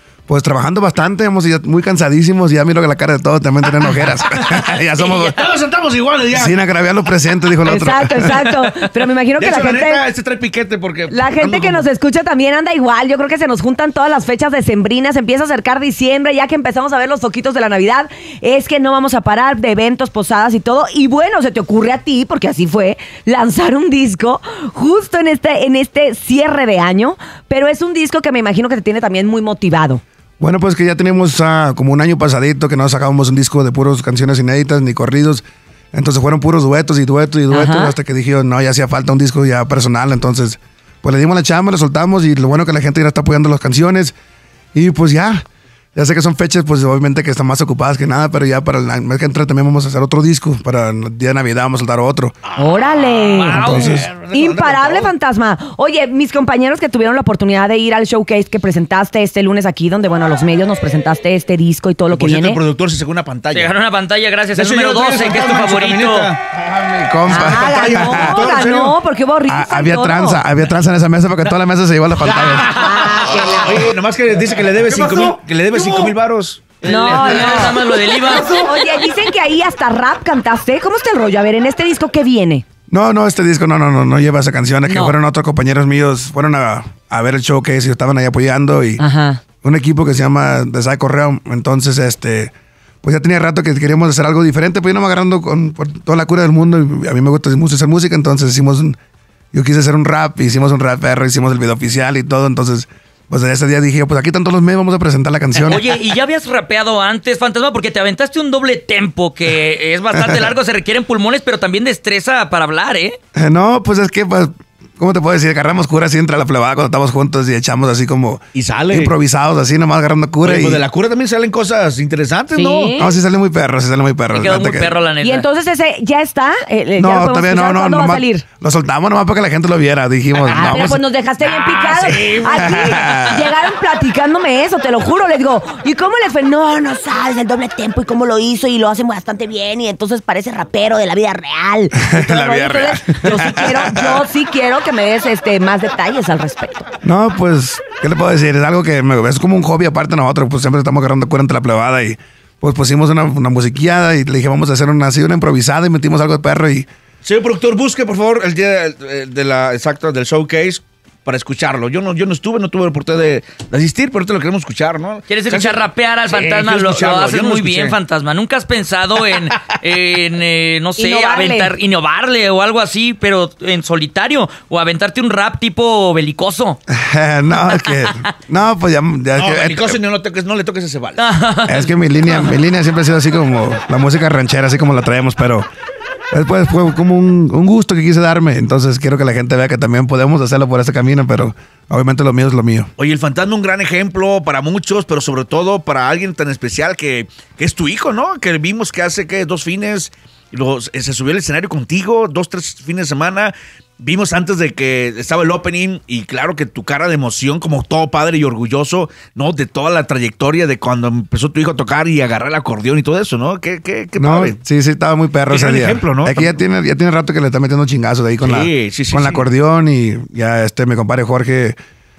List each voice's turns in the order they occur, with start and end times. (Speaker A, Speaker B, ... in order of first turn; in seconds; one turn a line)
Speaker A: 0.3-5.4
Speaker B: 4.4-5.3
Speaker C: 5.4-6.5
Speaker A: 6.3-8.4
Speaker D: 7.7-10.0
Speaker B: 8.3-8.8
Speaker C: 9.4-11.9
Speaker D: 11.1-30.0
Speaker A: 30.4-44.1
Speaker D: 37.5-38.0
Speaker A: 44.7-45.4
Speaker A: 46.0-52.4
Speaker C: 52.6-53.1
Speaker D: 52.6-62.6
Speaker B: 53.3-54.0
Speaker A: 53.5-54.1
Speaker C: 53.8-55.1
Speaker C: 62.1-63.7
Speaker B: 63.5-66.4
Speaker C: 64.6-66.4
Speaker A: 66.5-68.5
Speaker D: 67.3-70.4
Speaker C: 67.6-69.0
Speaker A: 69.5-72.9
Speaker C: 72.2-72.7
Speaker D: 72.7-73.9
Speaker C: 73.4-76.7
Speaker B: 74.9-76.1
Speaker B: 76.8-78.7
Speaker D: 76.8-82.7
Speaker A: 82.9-89.0
Speaker D: 84.8-85.2
Speaker D: 89.0-89.4
Speaker A: 89.6-92.5
Speaker A: 93.0-99.0
Speaker A: 99.5-105.9
Speaker B: 105.6-113.2
Speaker A: 110.1-110.5
Speaker A: 113.3-120.8
Speaker C: 118.6-119.1
Speaker C: 120.5-122.8
Speaker D: 122.5-123.1
Speaker A: 123.0-125.0
Speaker B: 124.3-125.5
Speaker D: 125.2-128.4
Speaker A: 127.0-131.0
Speaker D: 130.5-146.9
Speaker A: 132.1-133.5
Speaker A: 141.9-144.3
Speaker A: 147.0-156.9
Speaker C: 157.2-168.0
Speaker B: 165.3-176.8
Speaker D: 171.0-171.7
Speaker A: 176.9-180.0
Speaker B: 177.7-178.1
Speaker C: 179.4-181.3
Speaker B: 181.2-182.5
Speaker A: 181.7-185.7
Speaker A: 186.3-192.9
Speaker C: 193.0-214.5
Speaker A: 214.2-221.8
Speaker C: 215.8-216.5
Speaker C: 218.5-219.3